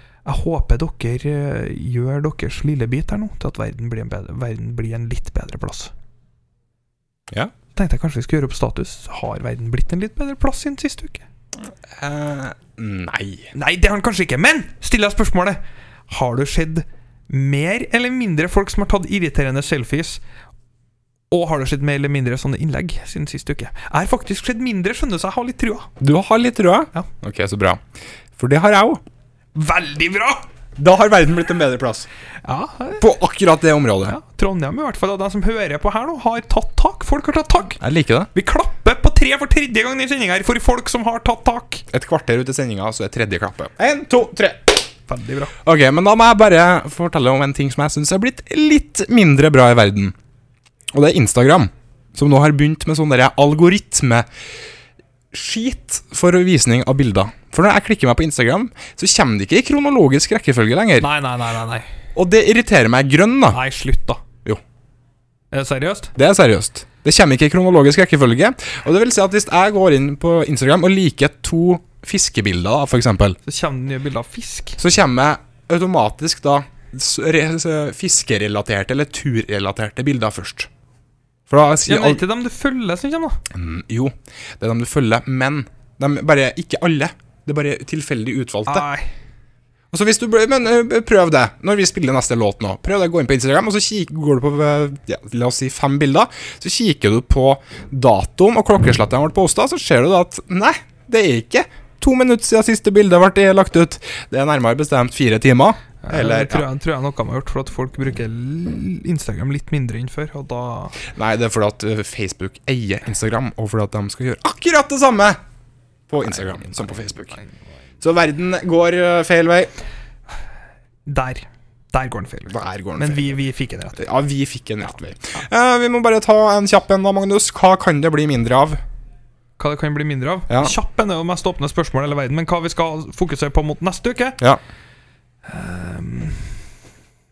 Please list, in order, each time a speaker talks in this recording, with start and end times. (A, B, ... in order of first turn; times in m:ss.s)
0:00.2-0:05.9 A
0:07.8-0:11.2 A
0:11.6-0:13.5 B
0:13.5-0:20.2 A
0:21.3-0:25.9 A
0:26.0-0:27.8 B
0:28.4-0:29.0 B
0:29.5-0:30.4 A
0:30.8-0:32.1 B
0:32.4-0:33.0 A
0:33.0-0:34.2 B
0:34.0-0:37.8 A
0:37.8-0:38.3 B
0:38.3-0:41.8 A
0:41.9-0:44.8 B
0:45.1-0:45.5 A
0:45.6-0:50.1 B
0:50.9-0:54.3 B
0:55.3-1:01.1 B
1:01.0-1:01.9 A
1:02.1-1:03.6 B
1:03.5-1:04.2 A
1:05.5-1:06.1 A
1:06.2-1:13.4 B
1:13.4-1:14.8 A
1:14.8-1:20.7 B
1:21.5-1:22.2 B
1:21.8-1:23.4 A
1:23.5-1:28.9 B
1:28.6-1:29.1 A
1:29.9-1:46.7 B
1:46.0-1:51.0 A
1:51.1-1:55.4 B
1:56.1-1:57.4 B
1:58.0-1:59.7 B
2:01.0-2:04.0 A
2:02.5-2:03.4 B
2:03.9-2:08.8 B
2:09.6-2:14.4 A
2:10.5-2:10.7 B
2:15.4-2:16.5 A